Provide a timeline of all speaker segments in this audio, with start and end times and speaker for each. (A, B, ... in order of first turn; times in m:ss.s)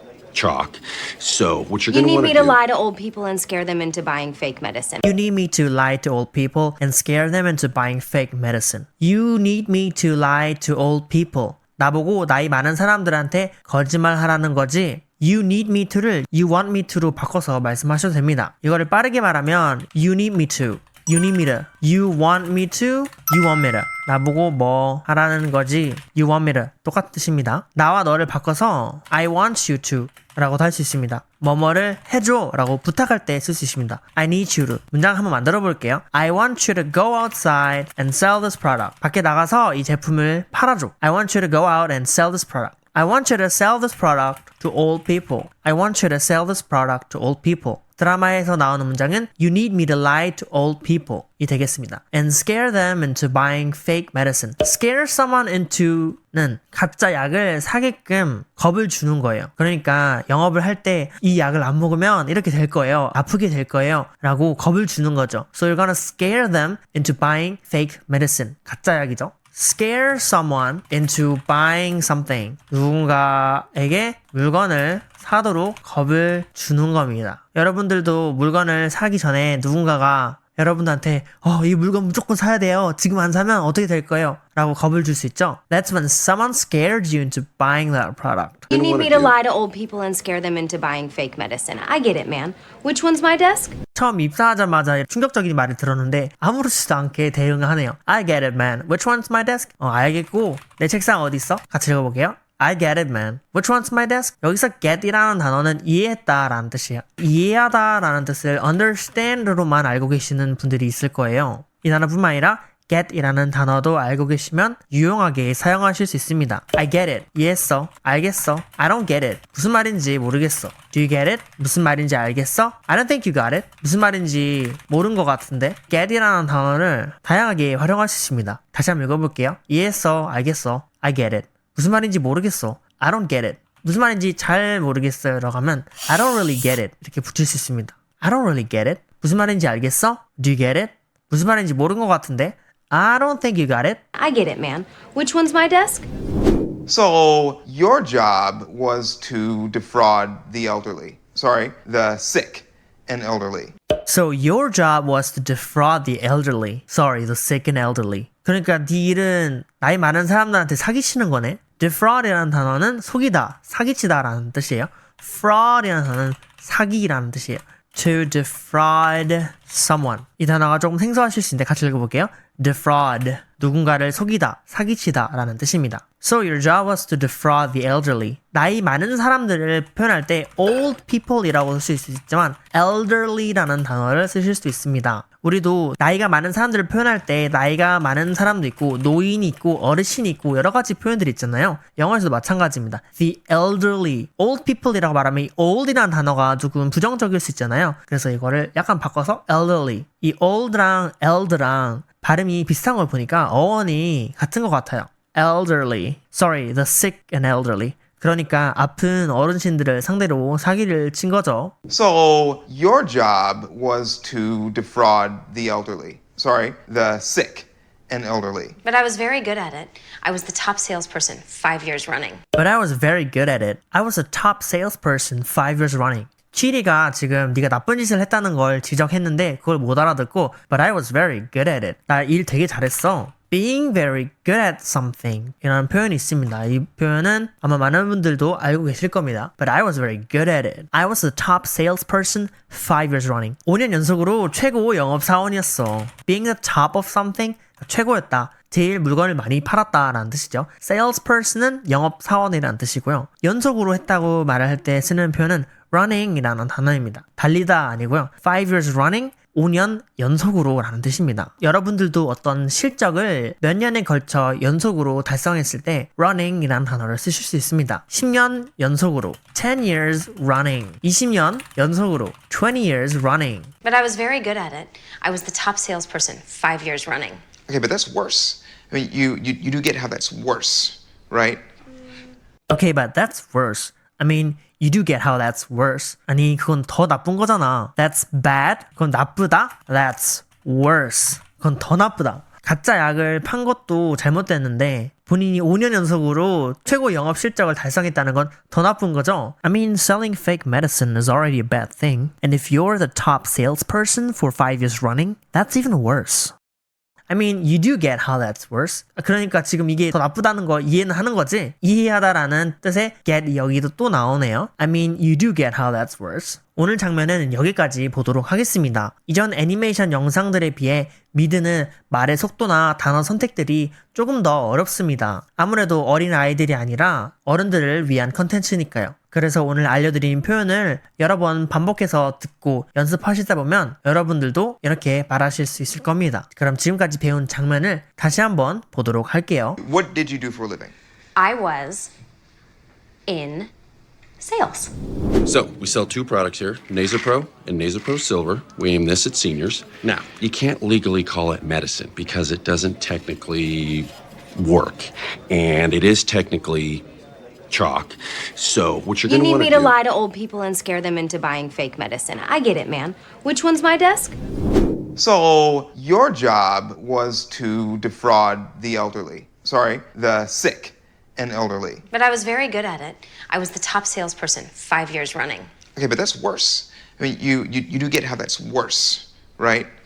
0:00.3-0:02.6 A
0:01.9-0:05.1 B
0:05.0-1:28.7 C
1:28.7-1:29.3 A
1:28.7-1:33.8 B
1:33.9-2:24.0 C
2:24.2-2:26.1 B
2:26.9-2:33.7 D
2:34.1-3:31.7 C
3:31.9-3:38.8 D
3:38.8-3:42.4 B
3:42.6-4:33.7 C
4:33.8-4:37.4 B
4:37.7-4:41.6 D
4:42.7-5:06.5 C
5:07.3-5:39.8 C
5:39.8-5:40.9 D
5:41.4-5:42.1 B
5:43.3-5:43.7 B
5:44.4-5:44.9 B
5:45.4-5:57.0 A
5:57.7-5:59.9 A
5:59.2-6:04.4 B
6:05.2-6:12.0 D
6:12.1-6:15.7 B
6:16.0-6:19.9 D